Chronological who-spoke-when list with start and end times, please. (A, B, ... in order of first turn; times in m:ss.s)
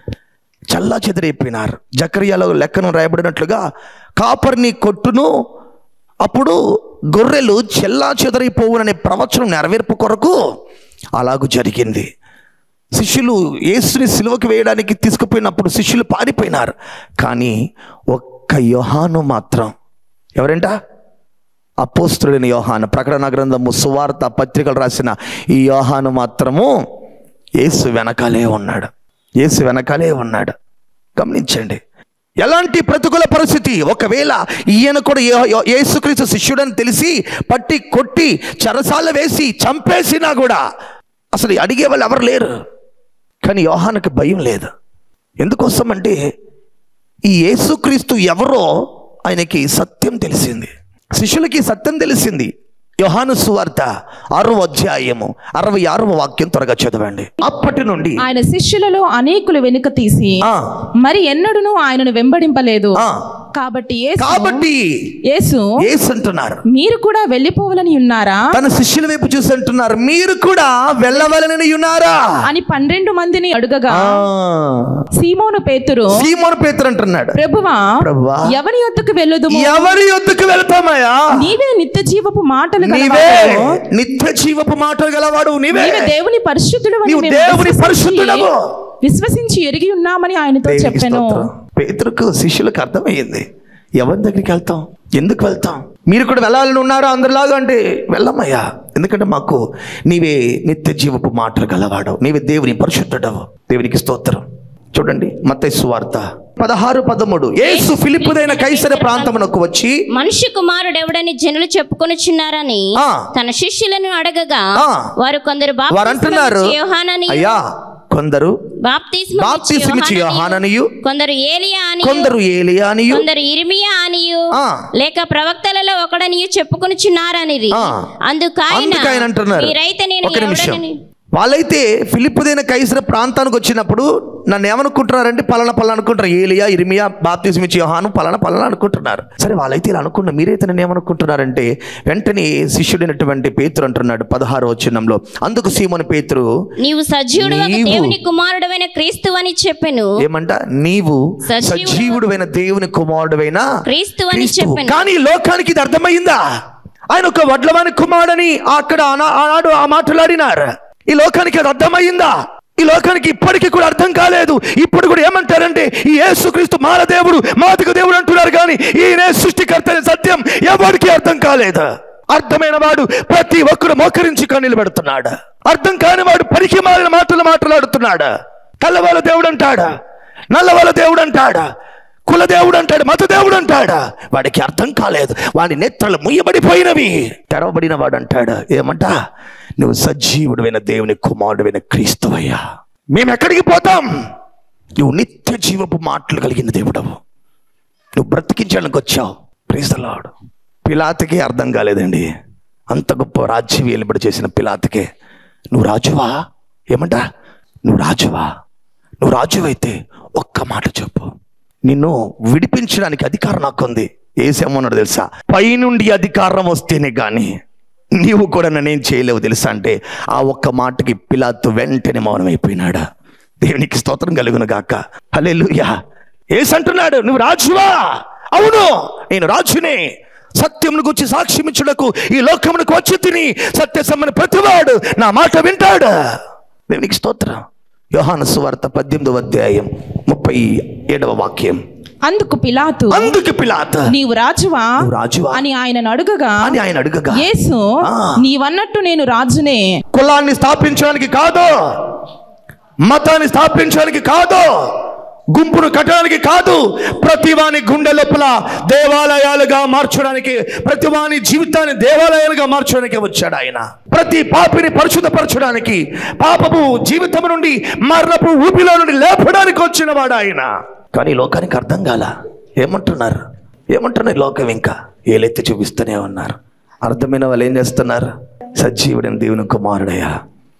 0:00.7-0:03.6 A
0:04.2-0:05.3 A
0:06.2-0:06.6 A
0:07.1-0:10.4 A
0:11.2-0:12.1 A
0:12.9-0:17.6 A
0:18.1-0:19.7 A
0:20.4-0:20.7 A
0:21.8-0:26.7 A
0:27.6-0:28.9 A
0:29.4-0:30.5 A
0:31.2-0:31.8 A
0:32.4-0:40.6 A
0:41.3-0:42.6 A
0:43.4-0:44.7 A
0:45.4-0:46.2 A
0:47.2-0:58.2 A
0:58.2-1:00.5 B
1:01.0-1:03.0 B
1:03.0-1:03.2 A
1:03.5-1:04.7 B
1:04.2-1:04.9 A
1:05.3-1:05.8 B
1:05.8-1:06.6 A
1:06.7-1:08.5 B
1:08.5-1:12.4 A
1:12.4-1:14.2 B
1:13.9-1:15.0 A
1:15.2-1:16.3 B
1:16.1-1:17.4 A
1:17.4-1:20.0 B
1:18.0-1:18.5 A
1:19.5-1:21.3 A
1:21.3-1:23.8 B
1:22.8-1:26.2 A
1:25.7-1:28.5 B
1:27.1-1:28.7 A
1:29.0-1:31.5 B
1:30.7-1:33.5 A
1:34.0-1:50.0 A
1:47.6-1:49.4 C
1:50.1-1:57.6 C
1:53.0-1:53.3 A
1:54.8-1:55.1 A
1:55.9-1:56.8 A
1:57.3-1:58.6 A
1:58.8-2:02.3 C
1:59.4-2:00.9 A
2:02.0-2:03.3 A
2:03.1-2:11.0 C
2:04.5-2:04.9 A
2:07.7-2:08.0 A
2:08.7-2:10.8 A
2:11.4-2:26.5 A
2:26.8-2:30.1 C
2:27.4-2:28.2 A
2:30.2-2:33.7 A
2:31.5-2:32.2 C
2:33.8-2:35.0 C
2:34.3-2:36.4 A
2:37.1-2:58.3 A
2:58.8-2:59.9 A
3:00.5-3:01.7 A
3:02.3-3:09.2 A
3:09.8-3:14.1 A
3:15.0-3:17.2 A
3:18.2-3:20.3 A
3:20.8-3:22.3 A
3:22.9-3:25.1 A
3:25.7-3:26.4 A
3:26.9-3:27.2 A
3:27.8-3:28.5 A
3:29.2-3:31.3 A
3:31.8-3:37.5 A
3:38.2-3:43.1 A
3:43.6-3:45.9 A
3:46.5-3:56.4 A
3:56.9-4:01.8 A
4:02.3-4:03.4 B
4:03.1-4:04.1 A
4:04.1-4:06.8 B
4:05.0-4:05.6 A
4:06.6-4:07.5 A
4:07.3-4:09.8 B
4:08.0-4:08.4 A
4:10.1-4:11.7 A
4:13.1-4:40.4 A